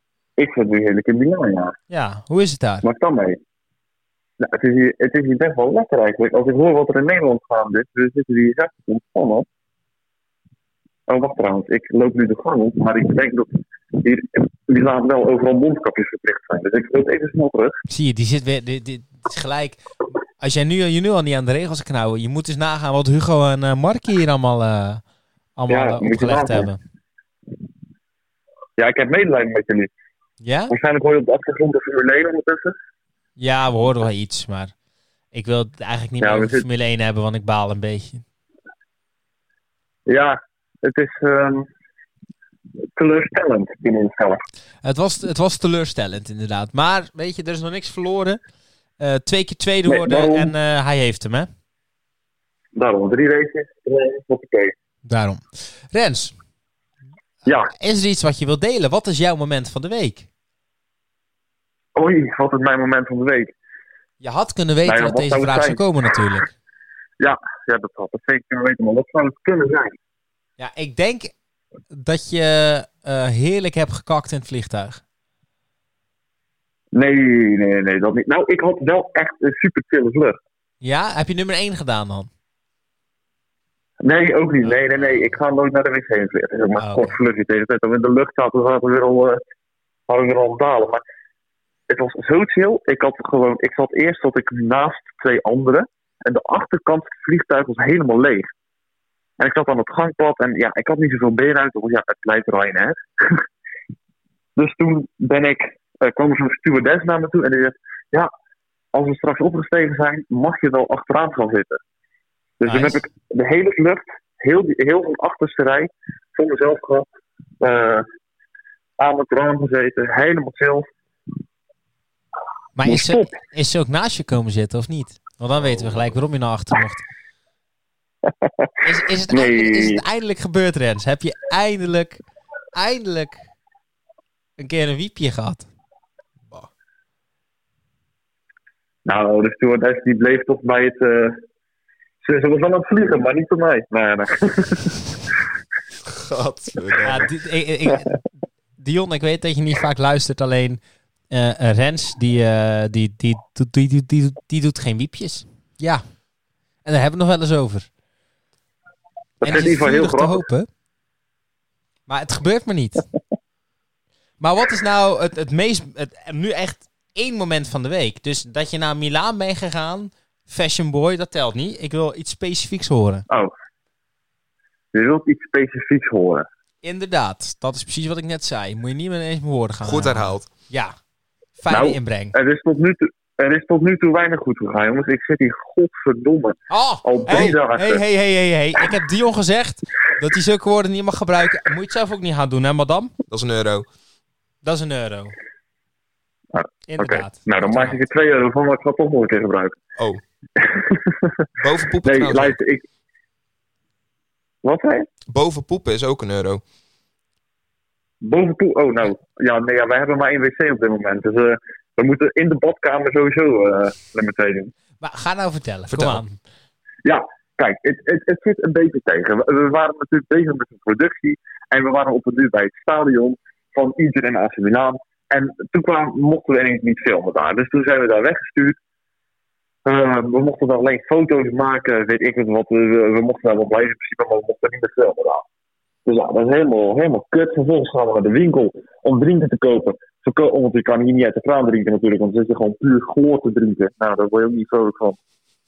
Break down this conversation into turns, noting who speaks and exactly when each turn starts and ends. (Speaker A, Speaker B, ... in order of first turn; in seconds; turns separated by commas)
Speaker A: 0.4-1.8, Speaker B: 1.9-2.8, Speaker A: 2.8-3.4, Speaker A: 4.4-9.4, Speaker A: 11.1-17.8, Speaker B: 17.9-19.8, Speaker B: 20.4-25.0, Speaker B: 25.6-26.8, Speaker A: 25.7-26.7, Speaker A: 28.8-29.9, Speaker B: 30.4-30.7, Speaker A: 30.7-32.8, Speaker B: 33.4-34.7, Speaker B: 35.3-38.2, Speaker A: 36.2-36.6, Speaker A: 40.1-41.7, Speaker A: 43.0-44.4, Speaker B: 44.8-48.4, Speaker B: 49.0-51.5, Speaker A: 49.9-50.5, Speaker A: 52.7-54.7, Speaker B: 55.0-56.3, Speaker A: 57.5-57.7, Speaker B: 57.7-60.3, Speaker A: 62.0-63.5, Speaker B: 64.2-66.5, Speaker A: 64.8-65.8, Speaker A: 67.2-70.0, Speaker B: 70.6-71.3, Speaker B: 71.9-75.0, Speaker A: 76.9-80.4, Speaker B: 80.8-82.3, Speaker A: 84.0-89.4, Speaker B: 86.8-87.2, Speaker A: 90.1-91.0, Speaker A: 91.9-98.5, Speaker A: 99.4-103.4, Speaker A: 104.6-108.3, Speaker A: 108.9-111.8, Speaker A: 112.6-117.1, Speaker B: 112.6-113.0, Speaker A: 117.6-118.0, Speaker A: 119.0-120.9, Speaker B: 122.8-127.0, Speaker A: 122.8-123.3, Speaker C: 125.6-126.2, Speaker B: 128.8-132.2, Speaker A: 129.3-130.0, Speaker B: 132.7-133.5, Speaker B: 134.6-135.7, Speaker A: 139.0-141.4, Speaker A: 142.2-145.1, Speaker C: 146.0-147.3, Speaker B: 147.1-148.2, Speaker B: 148.8-156.0, Speaker B: 156.8-157.9, Speaker A: 159.4-160.4, Speaker B: 159.4-160.7, Speaker B: 162.1-163.0, Speaker B: 164.4-173.2, Speaker A: 174.9-176.5, Speaker B: 176.8-180.9, Speaker C: 179.8-180.5, Speaker B: 181.6-182.3, Speaker A: 181.7-188.0, Speaker B: 186.7-193.1, Speaker C: 187.3-187.5, Speaker C: 193.3-193.9, Speaker B: 194.6-195.3, Speaker A: 196.5-199.8, Speaker B: 196.9-198.0, Speaker C: 200.0-200.2, Speaker A: 200.6-201.3, Speaker C: 201.6-202.6, Speaker A: 202.0-202.8, Speaker A: 204.6-205.1, Speaker C: 205.3-206.6, Speaker A: 208.2-214.7, Speaker B: 215.0-216.4, Speaker C: 215.9-216.2, Speaker A: 217.0-228.8, Speaker A: 229.8-235.4, Speaker A: 236.1-245.2